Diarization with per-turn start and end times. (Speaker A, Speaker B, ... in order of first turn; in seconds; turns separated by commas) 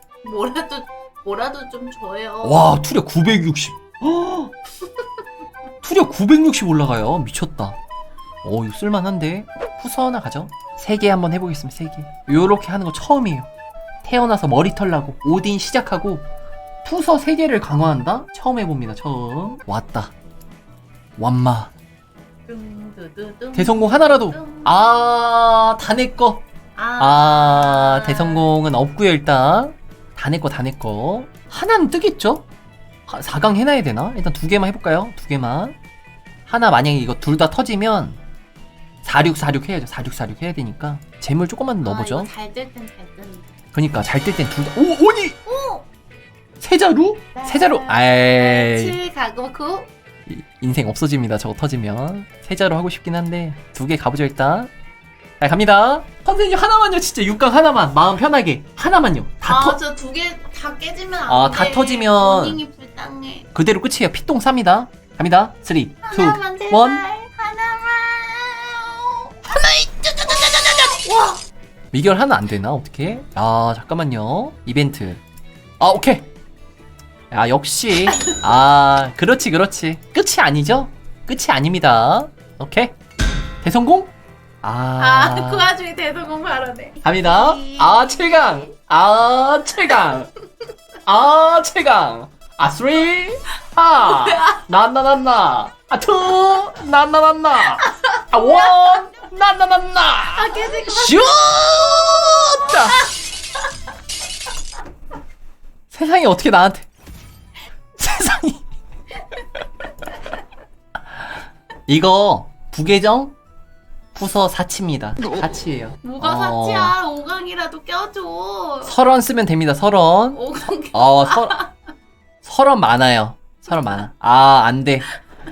Speaker A: 0.2-2.7, Speaker B: 2.4-4.5, Speaker B: 5.8-7.8, Speaker B: 8.4-13.5, Speaker B: 14.0-16.2, Speaker B: 16.8-20.1, Speaker B: 21.2-21.7, Speaker A: 22.5-24.8, Speaker B: 23.5-26.4, Speaker A: 26.8-28.5, Speaker B: 27.0-32.4, Speaker B: 33.1-35.8, Speaker B: 36.5-38.2, Speaker B: 39.0-42.3, Speaker A: 41.8-43.5, Speaker B: 43.7-45.4, Speaker A: 45.5-45.9, Speaker B: 46.6-49.0, Speaker A: 47.3-49.9, Speaker B: 50.3-54.7, Speaker B: 55.4-59.8, Speaker A: 59.4-63.5, Speaker B: 61.3-62.6, Speaker B: 63.5-67.0, Speaker A: 66.0-71.4, Speaker B: 71.9-75.2, Speaker B: 75.8-76.3, Speaker B: 77.3-82.9, Speaker B: 83.6-84.1, Speaker B: 84.6-85.7, Speaker A: 85.0-88.7, Speaker B: 87.0-90.3, Speaker B: 91.0-103.0, Speaker A: 94.0-94.5, Speaker A: 97.8-98.8, Speaker A: 100.3-101.4, Speaker A: 102.7-103.0, Speaker B: 105.9-106.9, Speaker B: 108.0-108.6, Speaker B: 111.9-113.3, Speaker B: 114.1-116.9, Speaker A: 116.0-118.9, Speaker B: 118.8-120.4, Speaker A: 120.3-121.7, Speaker B: 120.9-121.6, Speaker B: 122.4-125.1